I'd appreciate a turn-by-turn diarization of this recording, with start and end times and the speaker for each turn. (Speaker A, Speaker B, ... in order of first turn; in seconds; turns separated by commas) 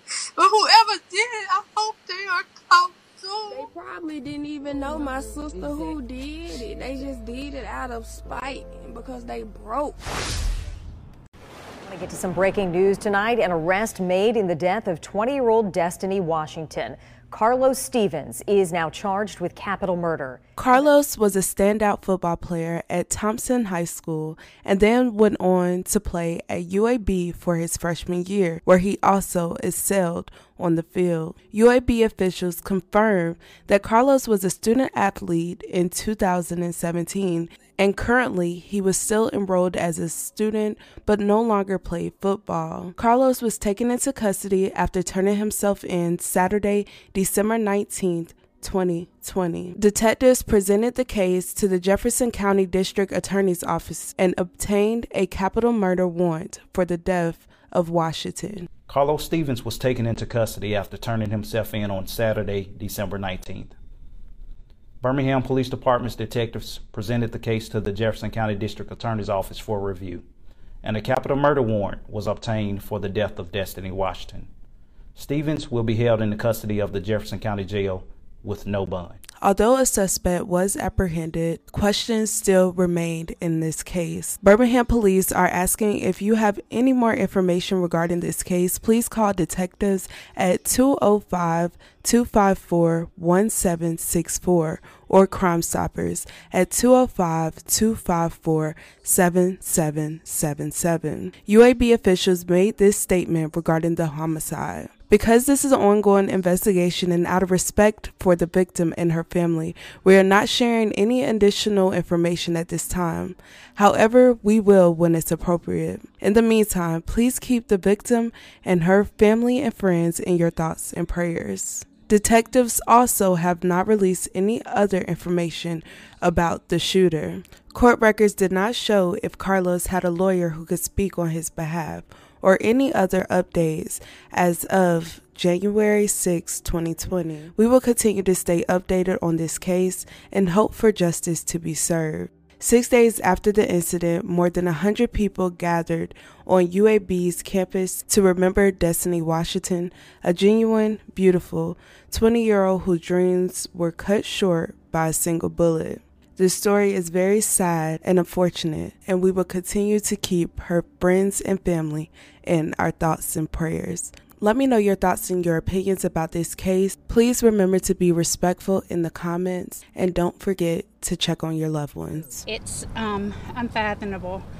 Speaker A: 0.4-3.7, Speaker B: 3.5-10.0, Speaker C: 11.8-20.8, Speaker D: 20.6-58.7, Speaker E: 58.9-63.7, Speaker E: 65.0-70.2, Speaker E: 70.8-74.5, Speaker E: 75.2-79.2, Speaker D: 79.4-172.5, Speaker F: 172.5-174.4